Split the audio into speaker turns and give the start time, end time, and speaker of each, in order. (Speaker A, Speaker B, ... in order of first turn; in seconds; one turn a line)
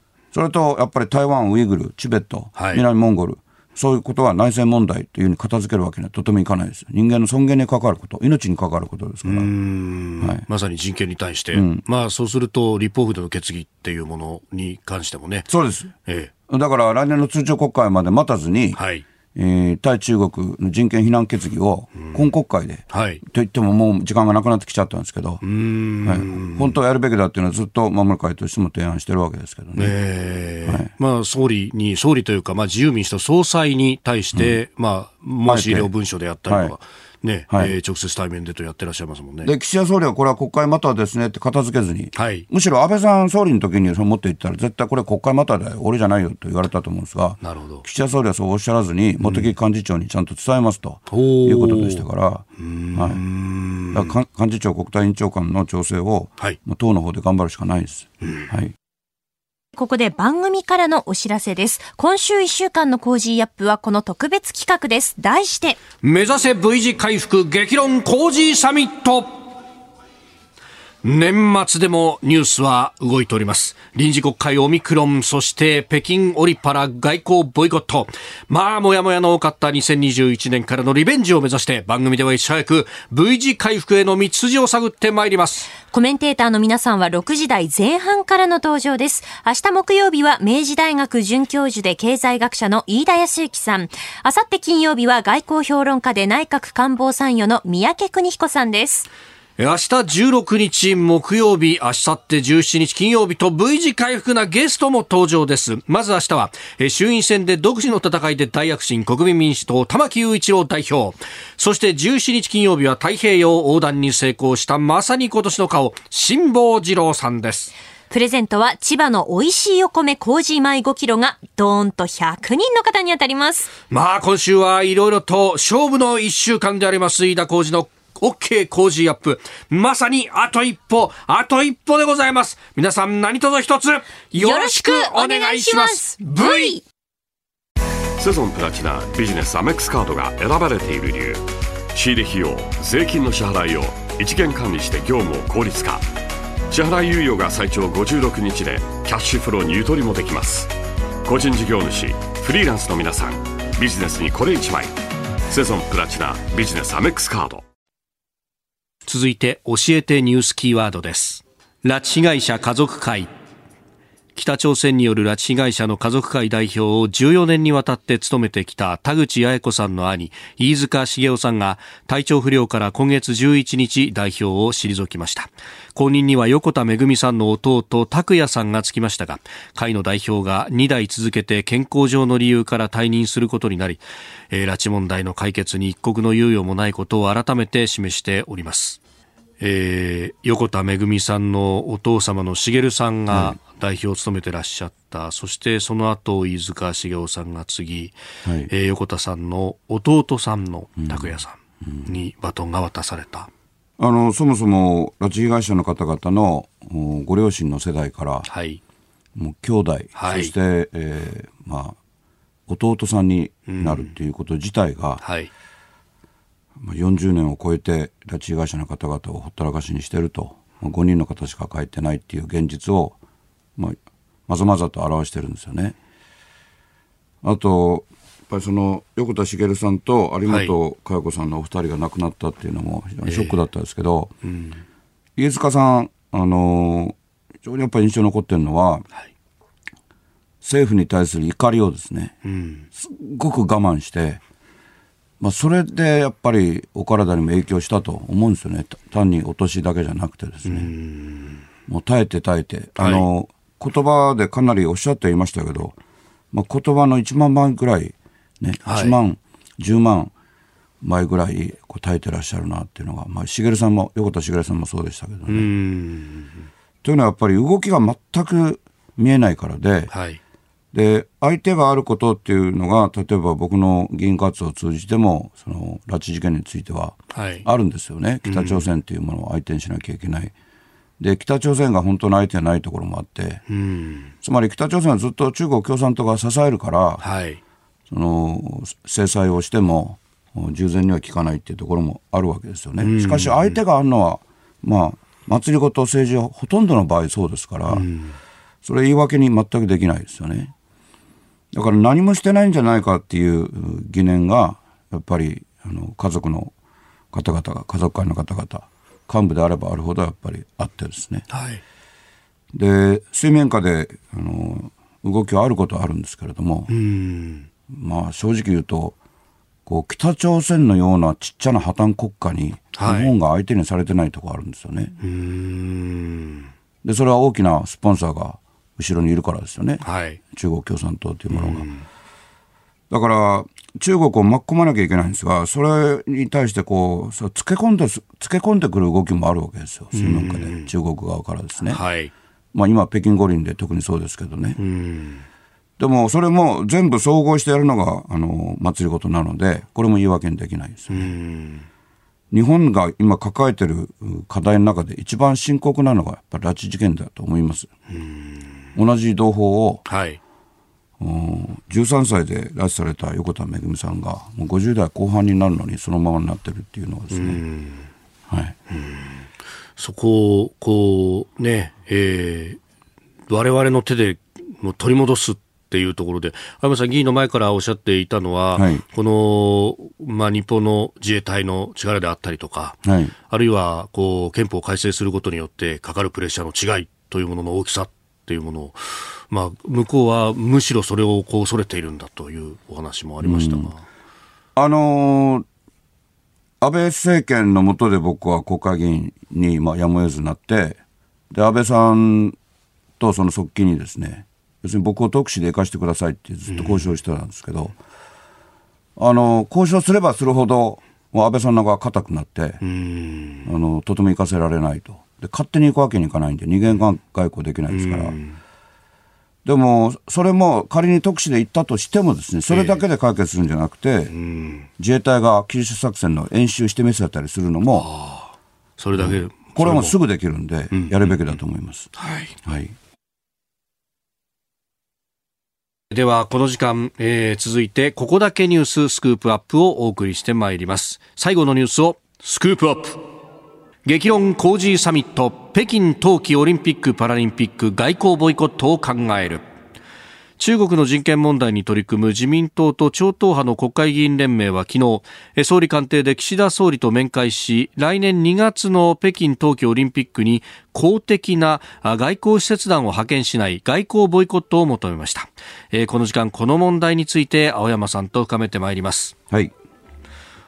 Speaker A: 0.3-9.5
Speaker B: 2.5-2.8
Speaker B: 9.2-15.5
Speaker A: 11.5-11.8
Speaker A: 15.5-15.9
Speaker B: 16.0-16.3
Speaker A: 16.5-18.8
Speaker B: 18.8-19.0
Speaker A: 19.3-25.4
Speaker B: 22.9-23.2
Speaker B: 25.4-26.7
Speaker A: 26.0-29.9
Speaker B: 29.8-39.5
Speaker A: 35.4-35.9
Speaker A: 36.5-36.7
Speaker A: 39.4-53.2
Speaker B: 42.1-42.5
Speaker B: 47.4-47.8
Speaker B: 49.2-49.5
Speaker B: 51.1-52.0
Speaker B: 52.6-54.1
Speaker A: 53.9-58.7
Speaker B: 58.2-58.5
Speaker C: 59.7-65.8
Speaker B: 66.0-69.4
Speaker B: 71.0-85.7
Speaker C: 85.9-99.1
Speaker B: 99.6-117.7
Speaker C: 118.1-123.7
Speaker B: 123.9-136.8
Speaker C: 134.4-136.8
Speaker D: 138.2-141.4
Speaker D: 141.9-146.1
Speaker D: 146.7-150.7
Speaker D: 151.2-154.9
Speaker D: 155.5-157.6
Speaker B: 159.1-163.3
Speaker B: 164.3-189.0
Speaker B: 189.6-198.1
Speaker A: 193.3-193.6
Speaker A: 198.4-198.7
Speaker B: 198.7-203.5
Speaker A: 201.0-201.3
Speaker A: 201.8-202.1
Speaker A: 204.0-208.5
Speaker B: 208.5-208.8
Speaker A: 209.3-211.9
Speaker B: 210.2-210.5
Speaker A: 212.7-215.2
Speaker B: 213.7-214.1
Speaker B: 215.2-215.5
Speaker A: 216.8-223.1
Speaker A: 224.5-225.9
Speaker A: 227.4-234.3
Speaker B: 233.2-233.6
Speaker B: 234.4-234.8
Speaker A: 235.3-239.1
Speaker A: 240.6-242.3
Speaker B: 242.4-242.9
Speaker A: 242.9-244.4
Speaker A: 245.4-250.9
Speaker B: 250.6-251.6
Speaker A: 251.9-255.9
Speaker B: 253.0-253.3
Speaker A: 256.5-260.3
Speaker B: 258.8-259.1
Speaker A: 261.0-265.7
Speaker B: 265.5-266.7
Speaker A: 267.0-270.1
Speaker B: 270.1-270.4
Speaker A: 270.9-280.5
Speaker B: 277.3-277.6
Speaker B: 278.4-278.9
Speaker A: 281.2-283.6
Speaker B: 283.7-284.3
Speaker A: 284.4-287.2
Speaker B: 287.2-287.6
Speaker A: 288.1-298.1
Speaker B: 293.0-293.8
Speaker B: 297.9-298.4
Speaker A: 298.8-300.7
Speaker A: 301.7-306.7
Speaker A: 307.3-311.4
Speaker B: 311.5-311.8
Speaker A: 312.7-316.9
Speaker B: 316.9-317.7
Speaker A: 317.9-319.1
Speaker A: 319.9-325.1
Speaker B: 322.9-323.3
Speaker B: 325.2-326.7
Speaker A: 327.0-331.9
Speaker B: 330.0-330.4
Speaker B: 331.5-332.1
Speaker A: 333.1-342.0
Speaker B: 340.1-340.9
Speaker B: 341.9-342.3
Speaker A: 342.7-344.8
Speaker B: 344.8-345.4
Speaker A: 346.0-351.3
Speaker B: 351.1-351.9
Speaker A: 352.5-357.9
Speaker B: 358.1-358.9
Speaker A: 358.9-360.0
Speaker B: 360.1-360.4
Speaker A: 361.2-367.6
Speaker B: 367.3-368.1
Speaker A: 368.5-368.7
Speaker B: 368.9-372.8
Speaker B: 373.5-394.0
Speaker A: 378.7-379.0
Speaker A: 383.0-383.3
Speaker A: 393.4-393.9
Speaker A: 394.8-395.6
Speaker A: 396.8-401.0
Speaker A: 401.5-402.6
Speaker A: 403.2-408.0
Speaker B: 406.7-407.1
Speaker A: 409.2-412.8
Speaker B: 412.8-413.7
Speaker A: 413.6-418.4
Speaker B: 417.9-418.6
Speaker A: 419.6-424.3
Speaker B: 422.7-423.0
Speaker B: 424.3-424.9
Speaker A: 425.0-428.1
Speaker B: 427.9-430.2
Speaker A: 429.1-432.1
Speaker B: 430.9-431.6
Speaker B: 432.1-432.6
Speaker A: 432.6-432.9
Speaker B: 436.1-443.3
Speaker B: 444.0-449.6
Speaker B: 450.6-469.3